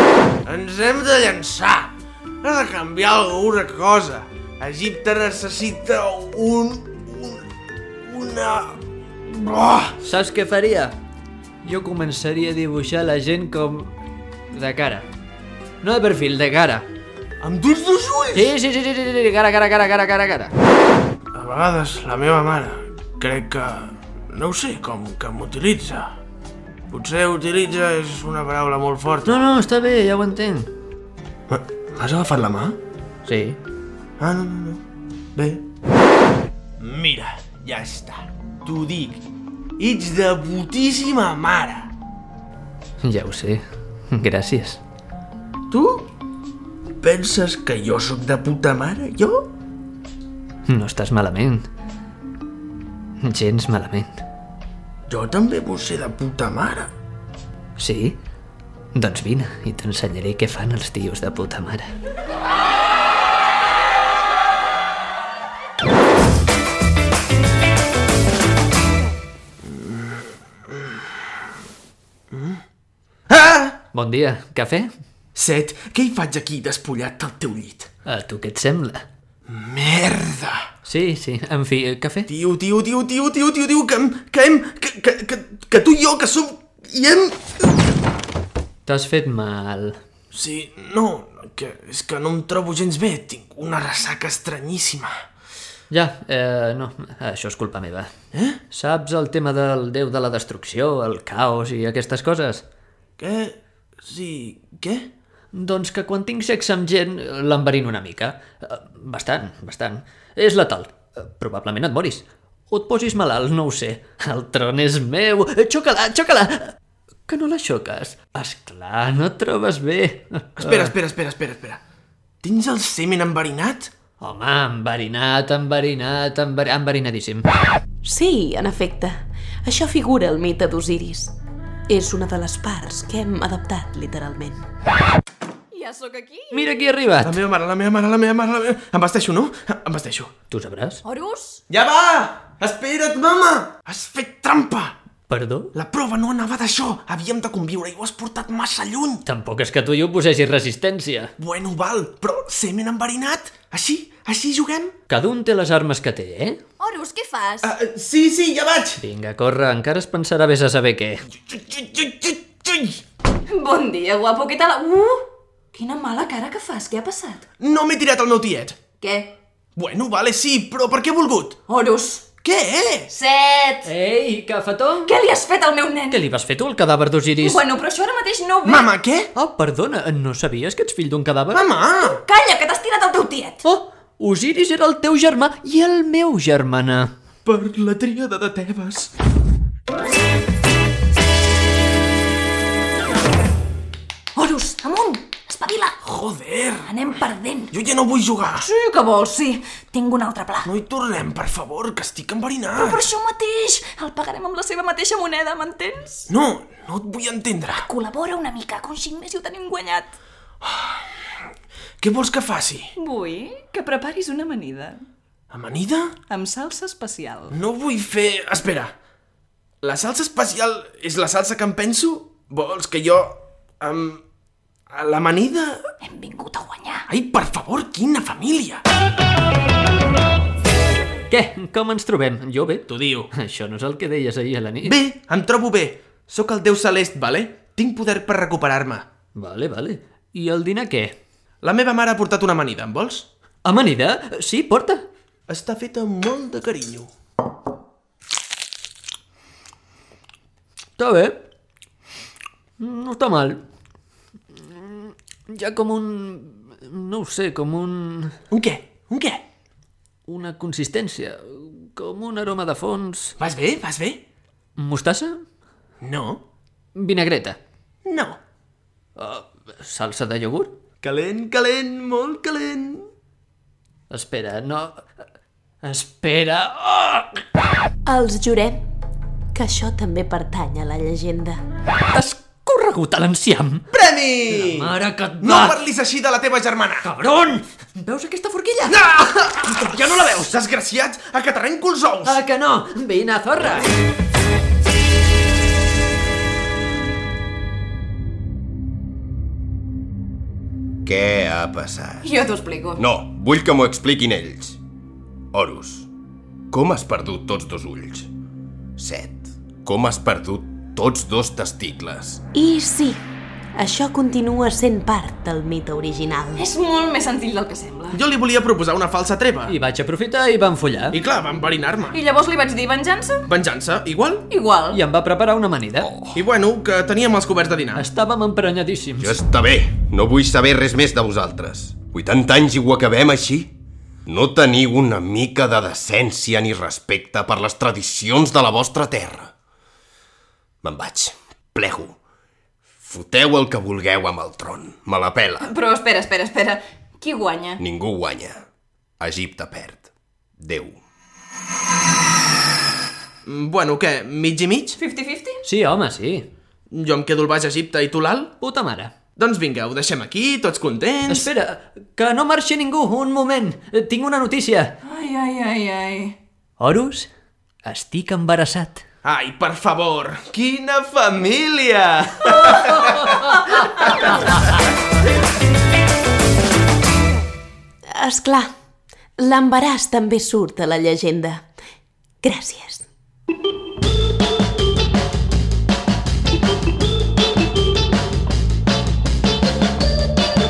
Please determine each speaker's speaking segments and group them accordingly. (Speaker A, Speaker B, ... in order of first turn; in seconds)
Speaker A: 0.5-7.5, 8.0-10.0, 17.4-18.6, 21.3-26.2, 26.9-29.5, 31.5-32.8, 34.2-34.8, 35.4-35.6, 36.8-39.2, 39.8-41.9, 45.7-46.1, 47.0-49.5, 55.1-56.9, 69.6-70.3, 72.3-72.6, 73.3-73.8, 75.3-77.9, 79.5-80.7, 82.3-87.8, 90.3-95.2, 98.3-98.6, 103.2-105.1, 120.6-121.8, 122.4-123.9, 137.2-140.3, 141.7-145.0, 145.7-149.2, 151.4-154.9, 157.6-159.0, 161.4-163.0, 167.6-168.8, 169.8-171.6, 172.4-173.1, 178.7-179.3, 181.5-182.2, 187.4-189.1, 196.0-196.9, 197.7-198.7, 200.7-203.1, 206.3-207.9, 210.6-211.1, 212.0-212.9, 215.5-216.2, 217.5-218.9, 219.8-224.2, 224.9-225.8, 227.1-228.8, 232.9-233.3, 234.8-239.1, 241.6-243.3, 245.5-247.1, 258.5-259.4, 263.4-264.2, 266.0-266.4, 268.1-268.4, 271.0-273.1, 283.9-287.1, 288.9-292.4, 318.1-319.8, 321.1-322.2, 323.5-324.5, 326.3-328.1, 353.4-355.0, 356.9-358.5, 359.4-361.5, 369.2-374.4
Speaker B: 10.0-10.9, 11.6-13.9, 14.5-15.1, 15.8-16.9, 18.3-20.5, 29.2-30.7, 33.3-33.6, 43.0-44.8, 50.7-51.7, 53.2-54.2, 57.8-58.2, 58.9-61.9, 73.9-74.9, 78.1-79.0, 80.9-82.3, 88.9-90.0, 95.9-98.1, 98.7-102.6, 105.5-116.8, 117.3-120.9, 124.2-127.5, 136.5-137.4, 140.5-141.0, 145.3-145.7, 149.3-151.3, 155.1-156.6, 159.0-161.2, 173.8-175.1, 176.1-177.6, 179.3-181.7, 183.6-187.1, 231.3-235.0, 239.4-241.2, 243.6-245.1, 251.0-251.4, 252.8-253.6, 254.6-258.3, 260.3-263.4, 264.8-265.4, 267.0-267.6, 269.2-270.7, 274.1-275.0, 275.8-277.4, 282.1-283.8, 284.5-285.8, 287.0-290.1, 292.2-293.9, 319.7-321.2, 324.9-326.2, 327.9-329.4, 355.6-356.5, 358.6-359.1, 361.3-364.9, 366.8-367.3, 367.8-369.0, 372.5-374.4
Speaker C: 128.1-131.4, 131.9-134.7, 278.1-278.8, 279.5-281.6, 312.5-313.2, 313.8-316.6, 378.1-378.7, 379.4-381.7, 382.4-383.1
Speaker D: 135.7-136.8, 141.0-141.6, 156.8-157.7, 163.5-167.4, 169.0-169.4, 171.7-172.3, 173.1-173.9, 175.0-176.2, 177.4-178.9, 182.0-183.7, 194.3-196.0, 196.9-197.7, 198.6-200.7, 202.8-206.3, 207.7-210.2, 213.0-215.1, 216.3-217.6, 226.0-227.1, 302.2-303.0, 316.6-318.2, 322.1-323.5, 324.5-325.0, 345.6-347.8, 355.0-355.6, 365.0-366.4
Speaker E: 301.1-302.3, 303.0-304.8, 305.5-306.1, 306.7-308.3, 309.0-312.4, 326.0-326.4, 329.2-333.7, 334.3-339.5, 340.8-342.2, 343.0-345.7, 347.8-348.6, 349.2-350.1, 350.6-351.0